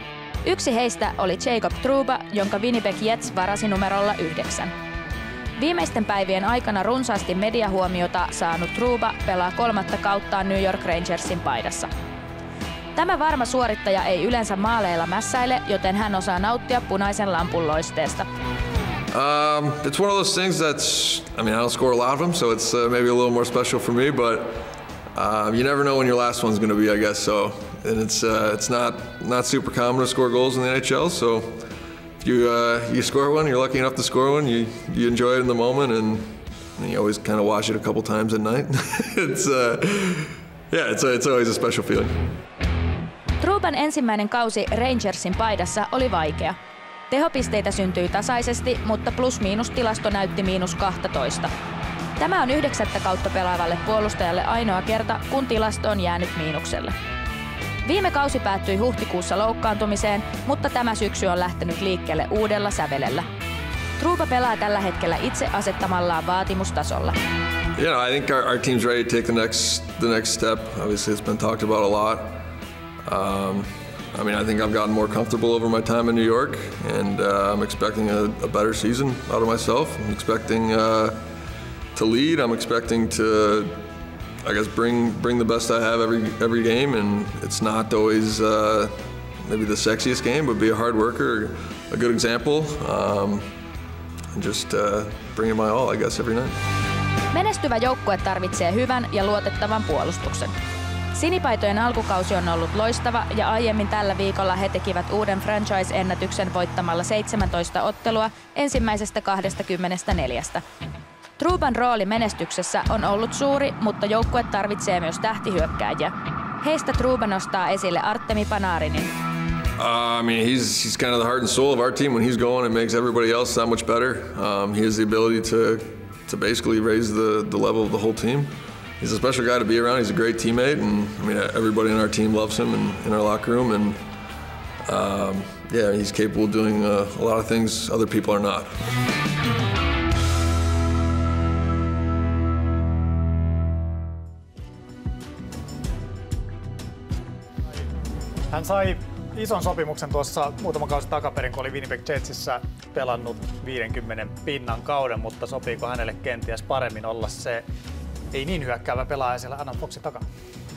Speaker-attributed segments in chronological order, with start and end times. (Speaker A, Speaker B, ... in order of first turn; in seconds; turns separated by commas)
Speaker A: 0.5-4.7, Speaker A: 5.6-11.9, Speaker A: 13.0-18.3, Speaker B: 19.1-31.7, Speaker B: 32.2-42.1, Speaker A: 43.4-46.6, Speaker A: 47.1-51.5, Speaker A: 52.2-56.9, Speaker A: 57.9-63.3, Speaker A: 64.0-67.2, Speaker B: 67.8-72.5, Speaker B: 73.1-81.3, Speaker B: 81.9-83.9, Speaker B: 84.4-93.5, Speaker B: 94.3-96.6, Speaker A: 97.3-100.5, Speaker A: 101.2-110.6, Speaker A: 111.4-119.1, Speaker B: 119.8-134.1, Speaker B: 134.9-138.8, Speaker C: 148.5-157.7, Speaker C: 158.3-160.2